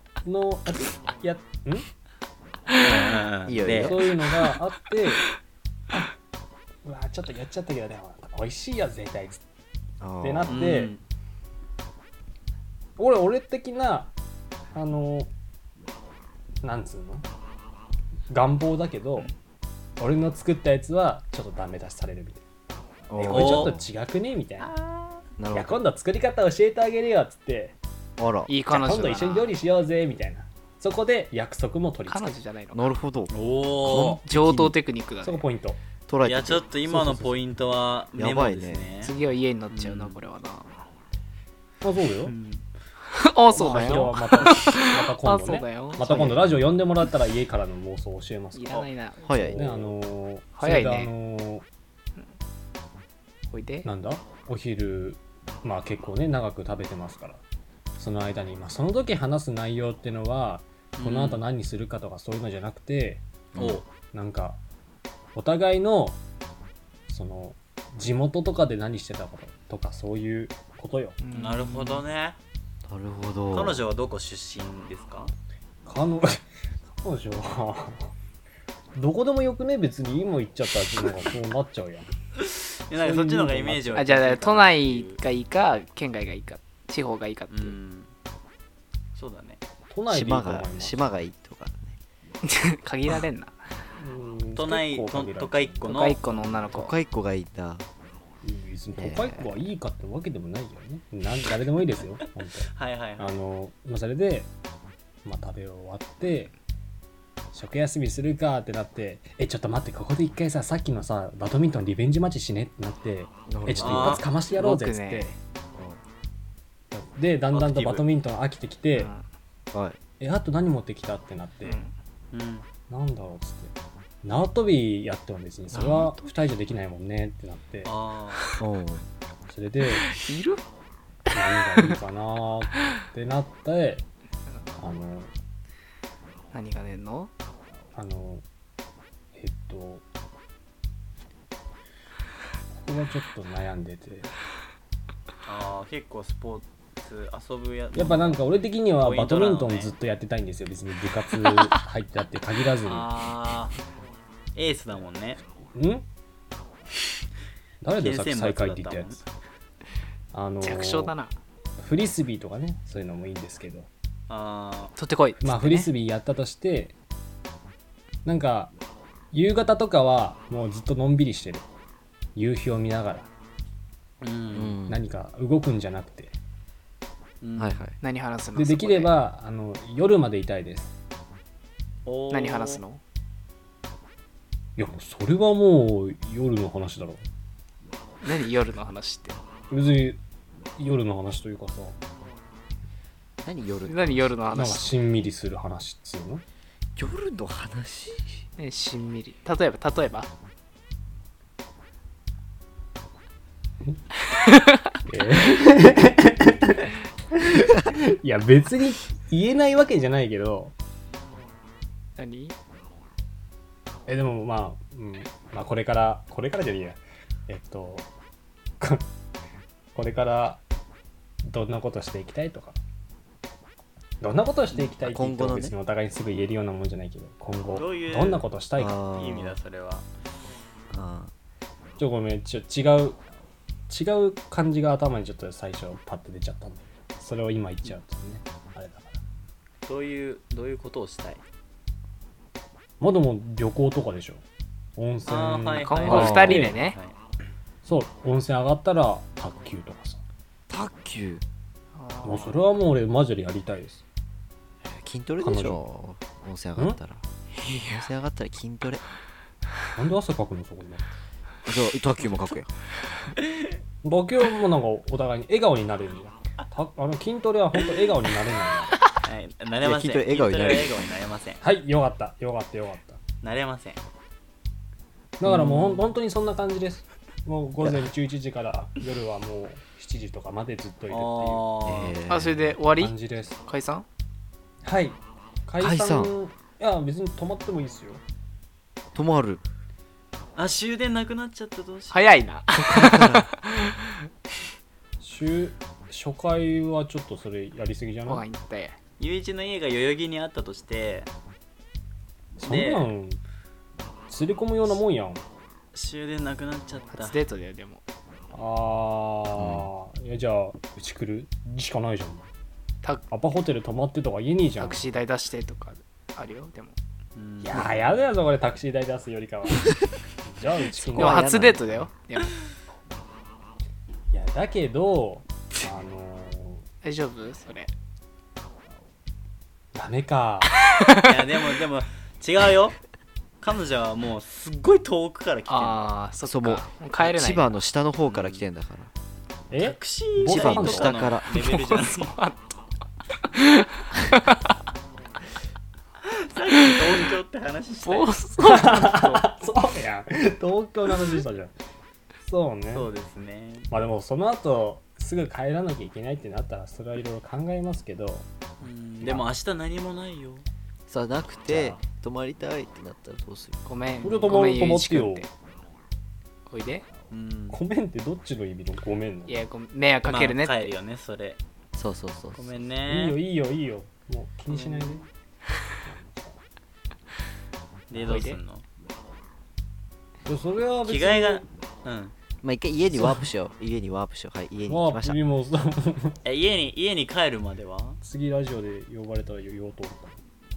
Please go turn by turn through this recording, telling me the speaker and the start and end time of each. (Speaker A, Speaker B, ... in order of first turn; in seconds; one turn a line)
Speaker A: 0.2-1.9
Speaker B: 2.8-4.1
Speaker C: 3.5-4.1
Speaker A: 3.8-5.3
Speaker A: 6.8-9.4
Speaker C: 10.0-10.6
Speaker A: 10.2-10.9
Speaker B: 10.5-11.0
Speaker A: 13.0-14.1
Speaker A: 14.7-15.3
Speaker A: 16.6-17.2
Speaker A: 18.3-19.3
Speaker A: 20.0-22.4
Speaker C: 23.1-23.9
Speaker A: 23.2-24.7
Speaker B: 23.3-23.7
Speaker B: 24.6-25.2
Speaker C: 25.4-25.8
Speaker A: 25.5-27.8
Speaker C: 28.2-28.5
Speaker D: 28.5-29.5
Speaker A: 28.7-32.3
Speaker D: 32.1-32.9
Speaker C: 32.7-34.8
Speaker B: 33.3-34.2
Speaker D: 34.2-35.4
Speaker A: 35.2-35.8
Speaker C: 36.1-37.3
Speaker B: 36.2-39.1
Speaker C: 38.1-38.8
Speaker D: 39.0-40.9
Speaker B: 39.7-40.2
Speaker A: 41.8-42.3
Speaker B: 42.3-42.6
Speaker D: 43.1-46.5
Speaker A: 43.5-48.9
Speaker D: 48.5-49.7
Speaker C: 49.2-49.9
Speaker A: 49.5-51.6
Speaker D: 50.6-51.1
Speaker D: 53.5-53.9
Speaker A: 53.9-57.4
Speaker A: 58.0-63.2
Speaker B: 61.0-61.4
Speaker C: 63.5-63.8
Speaker B: 63.5-63.9
Speaker A: 64.1-64.6
Speaker A: 65.3-66.2
Speaker A: 67.1-71.2
Speaker D: 71.2-72.0
Speaker B: 71.3-72.4
Speaker C: 72.9-73.8
Speaker B: 73.5-75.3
Speaker A: 75.9-78.1
Speaker A: 79.0-82.1
Speaker B: 82.4-85.2
Speaker A: 83.0-84.0
Speaker D: 84.0-87.8
Speaker B: 87.5-88.1
Speaker B: 89.2-89.6
Speaker A: 89.9-91.2
Speaker C: 90.1-92.0
Speaker D: 92.4-93.7
Speaker A: 94.0-96.6
Speaker B: 94.5-96.2
Speaker D: 95.9-97.0
Speaker C: 96.7-97.9
Speaker A: 98.4-102.7
Speaker C: 99.0-99.5
Speaker B: 102.7-103.4
Speaker A: 103.2-104.5
Speaker A: 105.2-106.5
Speaker A: 107.5-115.3
Speaker C: 113.5-114.2
Speaker B: 113.8-114.2
Speaker D: 114.5-115.4
Speaker C: 115.8-116.0
Speaker A: 116.9-119.1
Speaker B: 117.5-118.0
Speaker D: 119.0-119.2
Speaker C: 119.7-120.0
Speaker A: 120.2-121.8
Speaker D: 121.6-121.9
Speaker B: 122.3-122.7
Speaker A: 122.9-127.9
Speaker B: 127.8-128.5
Speaker C: 128.6-129.1
Speaker A: 129.5-130.1
Speaker D: 130.0-130.6
Speaker A: 131.3-134.1
Speaker D: 134.5-134.8
Speaker A: 134.8-135.3
Speaker D: 136.5-137.3
Speaker A: 137.9-138.4
Speaker A: 139.3-140.0
Speaker A: 142.8-144.3
Speaker B: 145.5-148.4
Speaker A: 147.9-153.1
Speaker B: 149.0-149.9
Speaker B: 152.8-153.8
Speaker B: 154.6-155.4
Speaker A: 155.7-156.1
Speaker A: 157.8-159.2
Speaker B: 157.9-159.3
Speaker A: 160.3-161.1
Speaker D: 160.6-161.4
Speaker A: 161.8-163.9
Speaker B: 164.3-164.9
Speaker D: 165.0-165.9
Speaker A: 165.4-166.9
Speaker A: 168.2-168.7
Speaker A: 169.3-171.7
Speaker A: 172.3-173.3
Speaker B: 174.2-174.8
Speaker C: 174.5-175.0
Speaker A: 174.9-176.3
Speaker B: 177.4-177.8
Speaker C: 177.6-178.0
Speaker D: 178.0-179.1
Speaker A: 178.6-180.9
Speaker B: 182.1-182.8
Speaker D: 182.3-183.0
Speaker A: 184.8-187.2
Speaker D: 188.2-189.4
Speaker A: 189.7-190.2
Speaker A: 190.8-192.0
Speaker C: 193.4-194.3
Speaker D: 193.9-194.9
Speaker A: 194.5-196.4
Speaker C: 197.0-198.4
Speaker D: 198.6-200.3
Speaker D: 204.5-204.9
Speaker A: 205.1-210.7
Speaker D: 212.2-212.6
Speaker A: 214.1-218.1
Speaker A: 218.8-219.1
Speaker A: 219.9-220.6
Speaker A: 221.4-222.8
Speaker A: 224.2-229.0
Speaker C: 225.0-225.7
Speaker B: 227.7-228.5
Speaker C: 228.8-229.6
Speaker B: 229.1-230.1
Speaker C: 230.9-231.3
Speaker A: 232.0-233.2
Speaker A: 233.9-239.2
Speaker B: 239.9-241.4
Speaker A: 243.0-244.4
Speaker A: 245.0-246.8
Speaker B: 245.2-247.1
Speaker D: 245.8-247.0
Speaker C: 246.1-246.6
Speaker A: 247.8-250.2
Speaker C: 250.7-251.4
Speaker D: 251.9-252.6
Speaker A: 252.2-254.0
Speaker C: 254.8-259.0
Speaker A: 255.4-255.8
Speaker A: 259.9-261.0
Speaker C: 261.7-262.7
Speaker A: 264.0-269.0
Speaker B: 269.2-271.6
Speaker C: 269.8-271.0
Speaker A: 271.6-273.2
Speaker B: 273.4-274.0
Speaker A: 275.4-281.6
Speaker C: 275.5-275.9
Speaker B: 281.1-282.2
Speaker C: 281.9-282.8
Speaker D: 282.3-284.1
Speaker A: 282.9-283.6
Speaker A: 284.8-288.2
Speaker C: 285.8-286.3
Speaker C: 289.1-289.6
Speaker B: 290.6-292.3
Speaker D: 292.1-294.0
Speaker C: 292.7-293.5
Speaker A: 295.2-298.4
Speaker D: 298.3-299.0
Speaker B: 299.2-301.3
Speaker A: 302.6-303.4
Speaker B: 302.7-303.1
Speaker A: 304.3-305.4
Speaker B: 305.9-307.4
Speaker D: 307.1-308.0
Speaker A: 308.5-312.5
Speaker C: 309.6-309.9
Speaker A: 313.3-315.0
Speaker D: 314.8-317.0
Speaker B: 317.4-318.3
Speaker A: 317.6-321.6
Speaker D: 321.1-322.6
Speaker C: 321.1-322.1
Speaker A: 324.3-326.8
Speaker D: 327.0-327.9
Speaker A: 329.9-330.7
Speaker D: 330.9-331.4
Speaker B: 331.1-333.0
Speaker B: 333.6-336.1
Speaker D: 335.7-337.7
Speaker C: 336.4-339.1
Speaker B: 338.3-338.6
Speaker A: 339.7-341.2
Speaker B: 339.8-342.4
Speaker C: 340.4-341.5
Speaker D: 341.5-342.7
Speaker D: 343.5-344.5
Speaker B: 346.2-348.4
Speaker D: 346.9-347.3
Speaker D: 348.1-349.5
Speaker A: 348.6-351.7
Speaker A: 352.4-353.1
Speaker B: 352.9-353.9
Speaker A: 353.9-358.5
Speaker B: 358.8-360.6
Speaker C: 361.1-363.9
Speaker A: 361.7-362.0
Speaker D: 363.9-365.5
Speaker A: 364.2-365.5
Speaker D: 366.7-367.1
Speaker B: 367.3-367.8
Speaker A: 367.7-369.7
Speaker D: 369.5-370.9
Speaker B: 370.2-371.6
Speaker C: 371.9-372.7
Speaker B: 372.6-373.4
Speaker A: 373.1-375.2
Speaker B: 374.7-375.3
Speaker A: 376.0-376.6
Speaker B: 378.1-378.8
Speaker D: 378.2-378.6
Speaker A: 380.5-381.6
Speaker B: 381.1-382.3
Speaker C: 382.6-385.4
Speaker A: 383.1-383.4
Speaker A: 384.9-386.4
Speaker B: 386.4-388.2
Speaker A: 388.2-390.4